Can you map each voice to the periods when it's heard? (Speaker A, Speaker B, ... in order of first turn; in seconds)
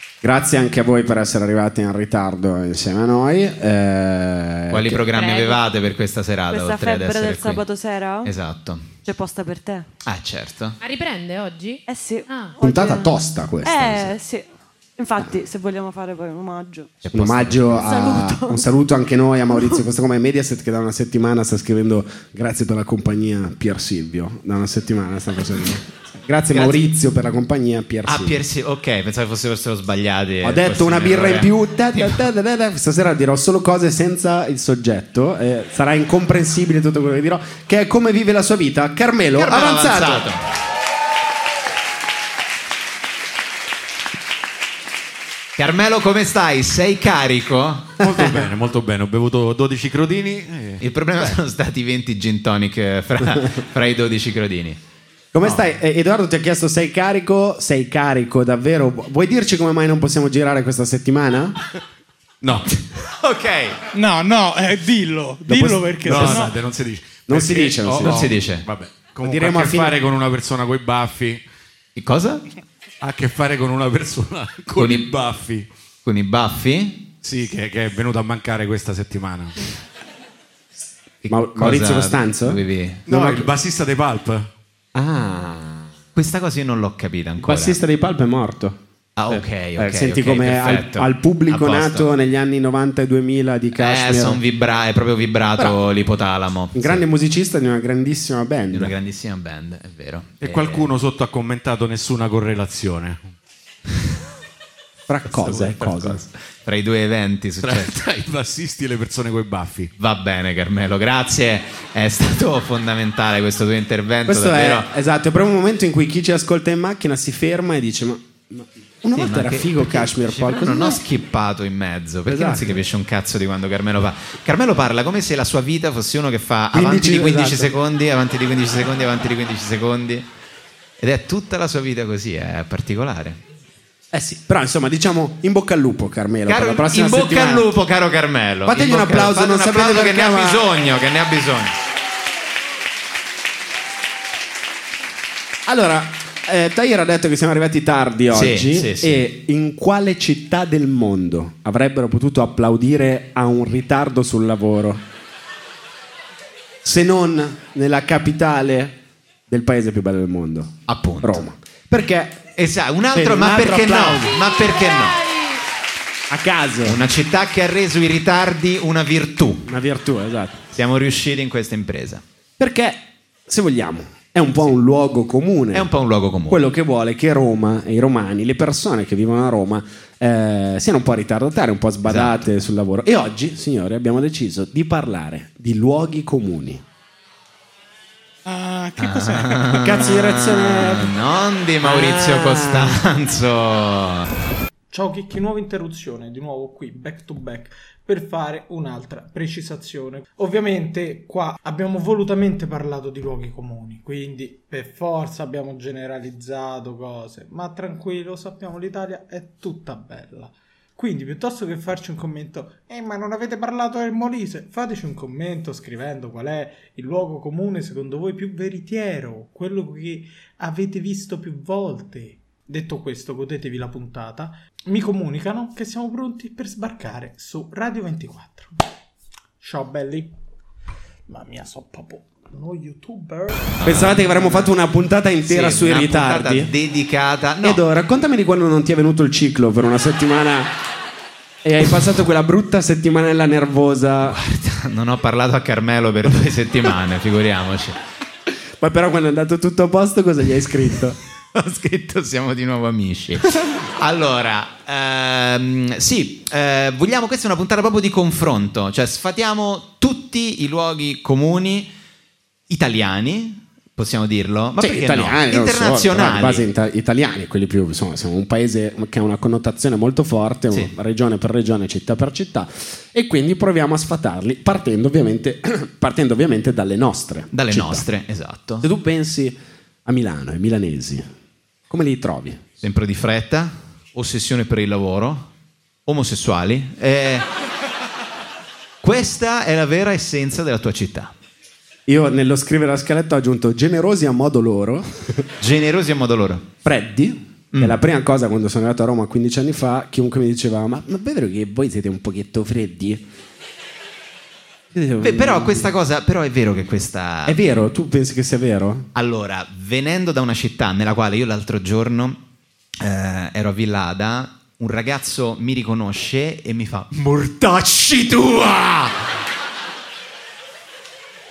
Speaker A: 0.2-5.0, 12.6-14.1, 17.1-28.4, 30.4-40.3, 48.0-48.5, 55.3-61.6, 65.5-66.4, 67.3-68.3, 69.2-70.0, 81.3-83.5, 84.9-85.9, 87.4-94.4, 96.7-98.9, 105.1-106.2, 114.2-121.0, 122.3-122.8, 126.7-127.7, 134.1-137.7, 138.7-140.6, 145.7-155.0, 156.8-159.0, 159.5-162.4, 163.1-164.4, 166.3-167.0, 169.7-170.6, 172.6-175.9, 176.5-186.8, 189.7-191.1, 191.8-193.0, 233.8-236.7, 237.6-240.7, 241.6-244.4, 248.8-251.2, 264.8-278.1, 278.8-281.2, 281.9-282.6, 292.1-295.4, 296.8-303.2, 304.9-305.9, 307.4-309.1
Speaker B: 4.7-7.6, 8.2-8.9, 10.1-10.8, 17.0-17.9, 26.5-26.8, 28.1-32.2, 39.3-40.4, 45.6-48.0, 50.8-54.8, 62.7-63.8, 66.1-66.4, 67.8-68.7, 72.0-72.4, 74.8-75.1, 76.0-77.0, 81.2-83.0, 86.1-87.8, 89.2-92.1, 93.7-97.0, 98.7-100.8, 105.3-108.0, 110.0-114.9, 119.1-130.2, 131.0-133.4, 136.5-141.8, 148.3-149.2, 160.9-161.4, 162.6-165.2, 166.8-169.7, 170.7-172.2, 175.7-176.6, 182.1-182.4, 189.0-194.3, 233.8-234.6, 235.4-237.8, 244.2-248.0, 251.5-261.9, 262.7-266.6, 277.5-278.9, 282.8-285.5, 286.1-287.4, 289.0-291.3, 295.6-296.7, 297.7-298.0, 305.2-307.6, 309.1-312.4, 313.0-319.1
Speaker C: 5.2-5.5, 6.5-8.3, 9.0-9.9, 11.9-14.4, 15.0-16.9, 17.8-18.6
Speaker D: 5.2-5.5, 10.8-12.5, 164.4-165.5
Speaker E: 48.0-51.4, 62.4-62.7, 66.0-71.4, 73.0-75.7, 77.2-79.5, 83.1-84.5, 100.4-103.3, 107.6-109.9
Speaker F: 63.9-66.5, 188.4-189.6, 194.9-228.7, 229.6-230.3, 231.3-234.0